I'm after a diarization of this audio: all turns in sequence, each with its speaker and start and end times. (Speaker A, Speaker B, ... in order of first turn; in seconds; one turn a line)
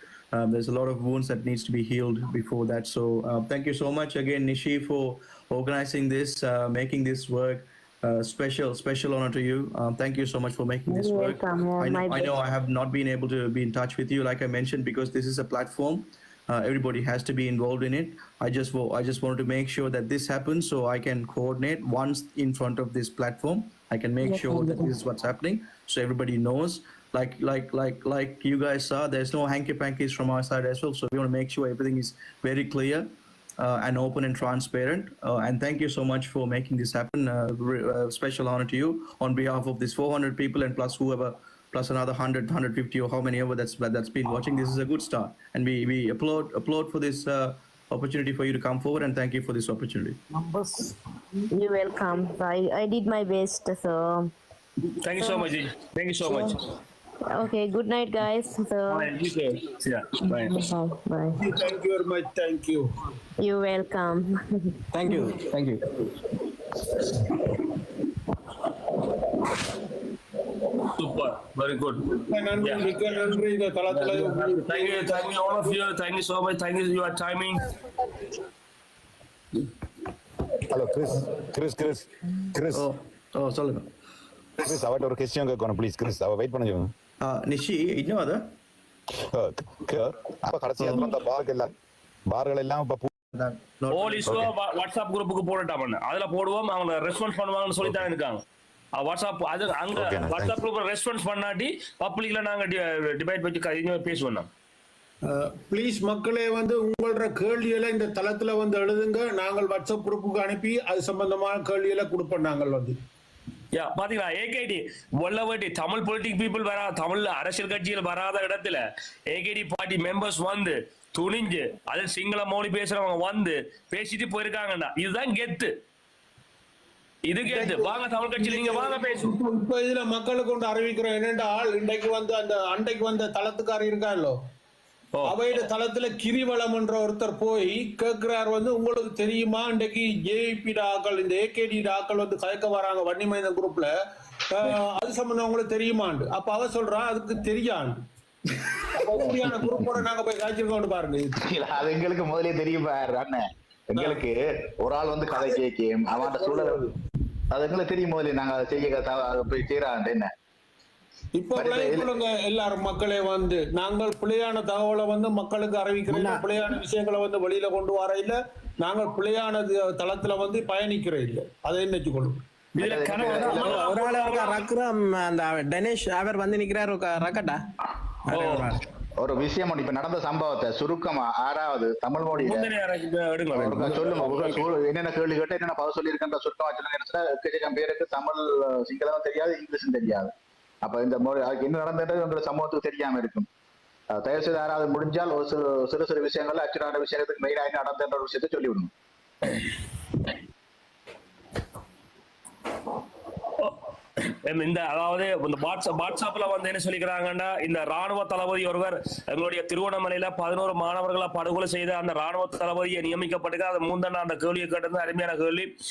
Speaker A: 0.3-50.2
Speaker B: 10.9-12.4
Speaker B: 24.2-24.9
Speaker B: 51.5-54.3
Speaker C: 55.0-56.5
Speaker B: 55.2-55.5
Speaker B: 56.2-56.6
Speaker B: 57.3-59.1
Speaker C: 58.9-60.6
Speaker B: 60.2-61.4
Speaker D: 61.4-62.9
Speaker B: 63.4-65.3
Speaker E: 64.9-65.8
Speaker C: 71.0-72.1
Speaker D: 72.1-75.2
Speaker C: 72.6-72.9
Speaker C: 73.9-77.7
Speaker F: 80.7-82.8
Speaker A: 82.8-83.9
Speaker F: 84.6-86.9
Speaker A: 87.2-88.4
Speaker F: 89.3-91.7
Speaker F: 92.3-93.1
Speaker A: 93.3-94.2
Speaker C: 93.9-98.4
Speaker F: 94.2-94.5
Speaker C: 99.0-104.5
Speaker F: 99.9-100.5
Speaker G: 100.0-100.5
Speaker D: 105.2-113.0
Speaker C: 113.7-125.7
Speaker C: 127.3-129.3
Speaker D: 127.5-134.4
Speaker C: 135.2-135.6
Speaker D: 135.2-143.9
Speaker D: 144.5-148.0
Speaker D: 148.9-151.4
Speaker G: 149.2-149.9
Speaker G: 151.4-156.9
Speaker D: 153.9-154.2
Speaker D: 156.1-156.9
Speaker G: 157.5-160.3
Speaker D: 161.4-172.4
Speaker G: 161.6-162.1
Speaker E: 166.1-166.5
Speaker C: 172.8-174.7
Speaker G: 172.8-173.7
Speaker E: 173.5-177.6
Speaker E: 178.3-178.8
Speaker C: 178.3-178.7
Speaker G: 179.2-182.7
Speaker C: 182.3-184.7
Speaker G: 183.6-193.5
Speaker G: 194.1-198.9
Speaker C: 203.6-215.7